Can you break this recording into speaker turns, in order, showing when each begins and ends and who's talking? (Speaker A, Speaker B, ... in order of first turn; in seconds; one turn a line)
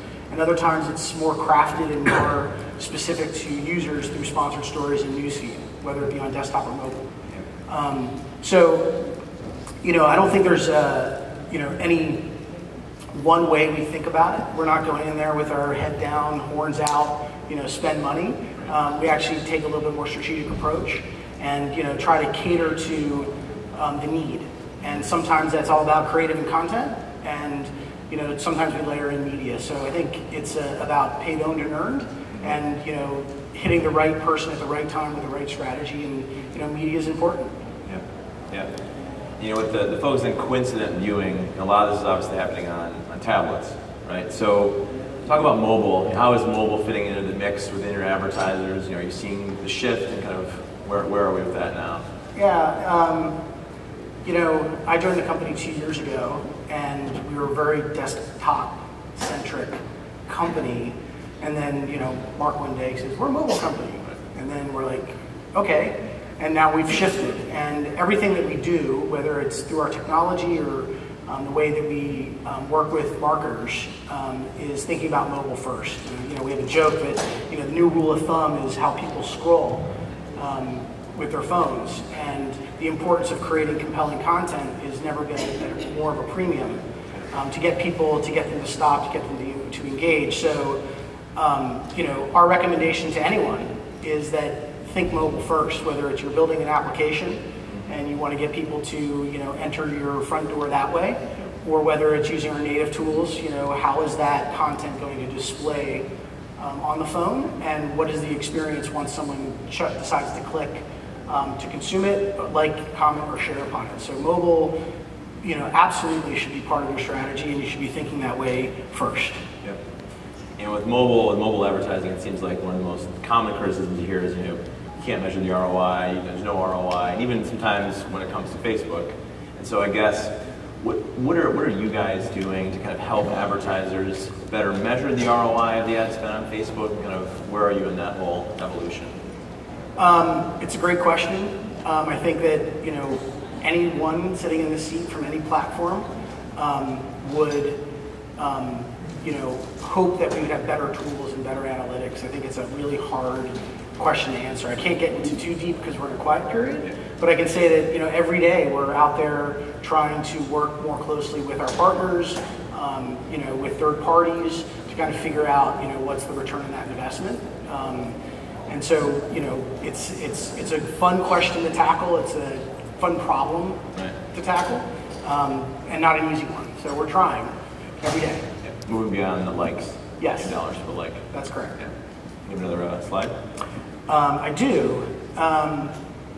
Speaker A: 0.3-7.1
Speaker A: 7.7-8.9
Speaker A: 9.8-12.2
Speaker A: 13.1-37.5
Speaker B: 37.9-38.7
Speaker B: 39.4-52.0
Speaker A: 52.4-53.3
Speaker A: 54.2-79.8
Speaker A: 80.4-86.8
Speaker A: 87.3-90.8
Speaker A: 91.4-106.0
Speaker A: 106.6-114.7
Speaker A: 115.4-119.4
Speaker B: 120.6-130.3
Speaker B: 130.8-139.1
Speaker A: 140.0-146.1
Speaker A: 146.6-147.8
Speaker A: 148.4-168.1
Speaker A: 168.7-178.4
Speaker B: 178.8-181.3
Speaker A: 180.2-180.5
Speaker A: 181.3-181.8
Speaker B: 182.5-183.3
Speaker A: 184.1-185.9